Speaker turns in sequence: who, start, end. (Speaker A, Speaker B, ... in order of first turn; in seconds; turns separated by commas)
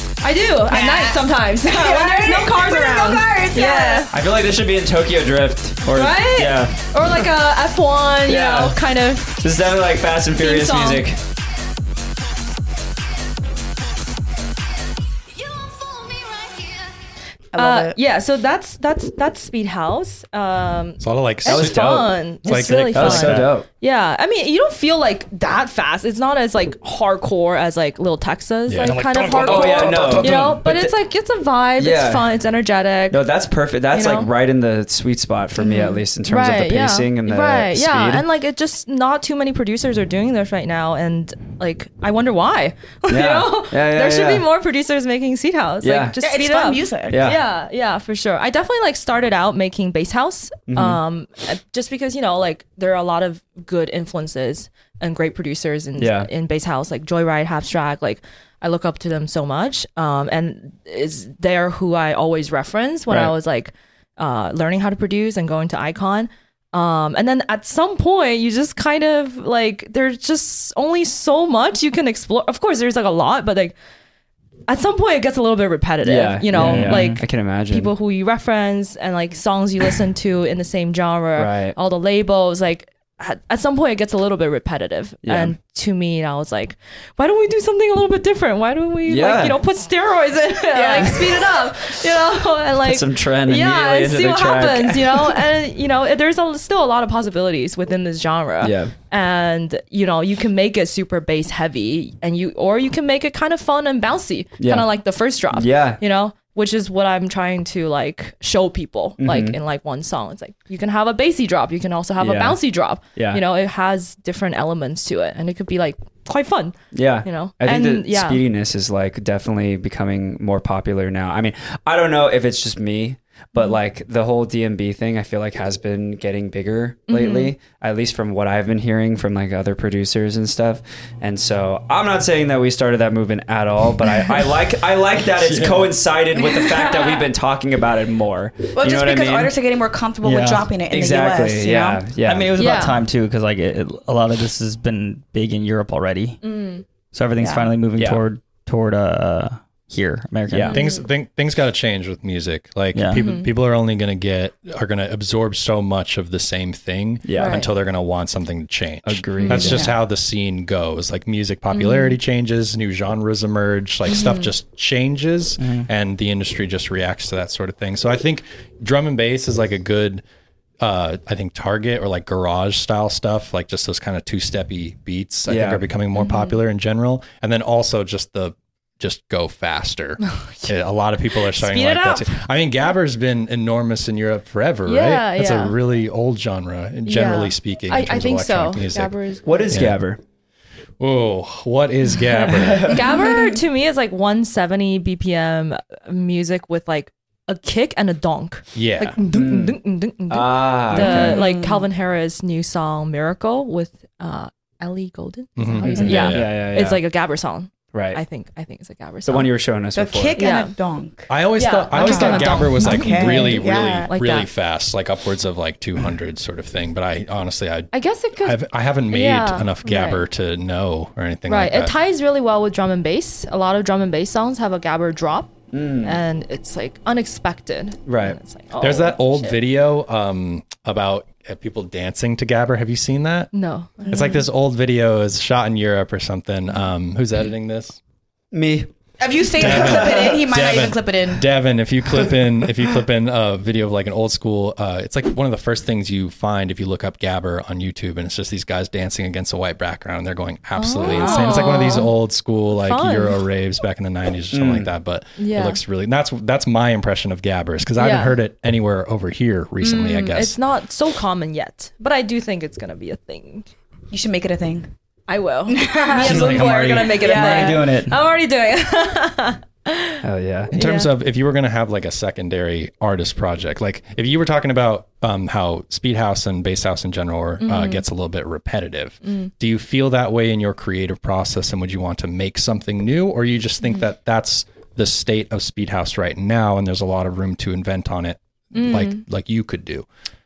Speaker A: 0.2-4.1, Speaker B: 0.7-4.1, Speaker C: 4.1-6.7, Speaker A: 5.9-9.4, Speaker D: 6.4-6.7, Speaker C: 8.3-8.8, Speaker C: 9.4-11.2, Speaker A: 10.3-11.1, Speaker B: 17.5-18.0, Speaker A: 17.6-33.2, Speaker E: 21.0-23.5, Speaker C: 21.5-22.1, Speaker C: 22.9-23.7, Speaker E: 28.7-29.5, Speaker D: 28.9-30.6, Speaker C: 29.4-30.9, Speaker C: 31.8-32.3, Speaker C: 33.1-38.2, Speaker A: 33.9-34.3, Speaker A: 35.6-73.8, Speaker C: 43.1-44.5, Speaker C: 45.8-46.2, Speaker B: 46.2-47.2, Speaker C: 47.1-47.4, Speaker C: 50.7-51.0, Speaker C: 56.0-56.3, Speaker A: 74.7-118.4, Speaker C: 76.0-77.9, Speaker D: 76.5-77.2, Speaker C: 81.4-81.8, Speaker C: 85.2-85.6, Speaker C: 89.1-89.6, Speaker B: 90.7-91.5, Speaker C: 92.8-95.4, Speaker C: 98.6-98.9, Speaker C: 104.6-104.9, Speaker C: 105.5-106.0, Speaker C: 109.2-109.6, Speaker C: 112.2-113.4, Speaker C: 116.9-139.5, Speaker A: 127.1-127.5, Speaker E: 135.3-136.0, Speaker A: 136.7-137.3, Speaker B: 138.7-142.0, Speaker D: 140.2-140.7, Speaker C: 140.9-142.7, Speaker D: 142.2-146.4, Speaker A: 142.6-143.0, Speaker A: 146.4-146.8, Speaker D: 147.1-150.8, Speaker B: 147.4-147.7, Speaker C: 150.5-150.9, Speaker A: 150.7-151.1, Speaker E: 150.7-170.2, Speaker D: 152.9-153.3, Speaker A: 153.1-153.5, Speaker C: 157.2-157.6, Speaker A: 157.4-157.7, Speaker C: 159.1-159.9, Speaker A: 159.4-159.8, Speaker B: 159.5-159.9, Speaker A: 161.7-162.2, Speaker A: 164.1-164.5, Speaker D: 165.6-165.9, Speaker E: 170.8-189.2, Speaker C: 175.5-175.9, Speaker A: 176.1-176.6, Speaker A: 180.4-180.7, Speaker A: 181.3-182.4, Speaker A: 184.8-185.8, Speaker A: 187.1-189.8, Speaker C: 189.4-190.2, Speaker E: 189.7-190.0, Speaker E: 191.0-193.1, Speaker A: 192.4-209.5, Speaker C: 192.5-193.1, Speaker E: 198.8-199.2, Speaker C: 199.2-201.4, Speaker B: 200.9-201.9, Speaker E: 205.6-206.7, Speaker C: 205.8-207.0, Speaker C: 207.9-208.2, Speaker C: 209.2-210.6, Speaker B: 209.9-211.3, Speaker A: 210.4-210.7, Speaker E: 211.3-221.9, Speaker A: 211.6-214.5, Speaker B: 211.9-214.1, Speaker A: 217.9-220.2, Speaker A: 221.5-229.6, Speaker C: 225.7-226.2, Speaker C: 228.1-228.4, Speaker E: 228.8-233.5, Speaker A: 233.5-234.5, Speaker E: 234.0-238.0, Speaker C: 238.5-238.9, Speaker B: 239.2-241.5, Speaker C: 239.6-240.4, Speaker E: 239.6-260.6, Speaker A: 250.8-252.1, Speaker B: 251.1-251.6, Speaker A: 252.7-253.4, Speaker C: 254.5-254.9, Speaker A: 255.4-255.8, Speaker A: 258.0-258.4, Speaker A: 259.8-263.7, Speaker B: 264.1-264.9, Speaker A: 265.3-271.1, Speaker B: 265.7-267.9, Speaker E: 266.2-267.2, Speaker D: 266.3-268.1, Speaker C: 270.2-270.7, Speaker E: 270.7-290.1, Speaker A: 277.6-278.1, Speaker A: 279.2-279.5, Speaker A: 288.7-289.2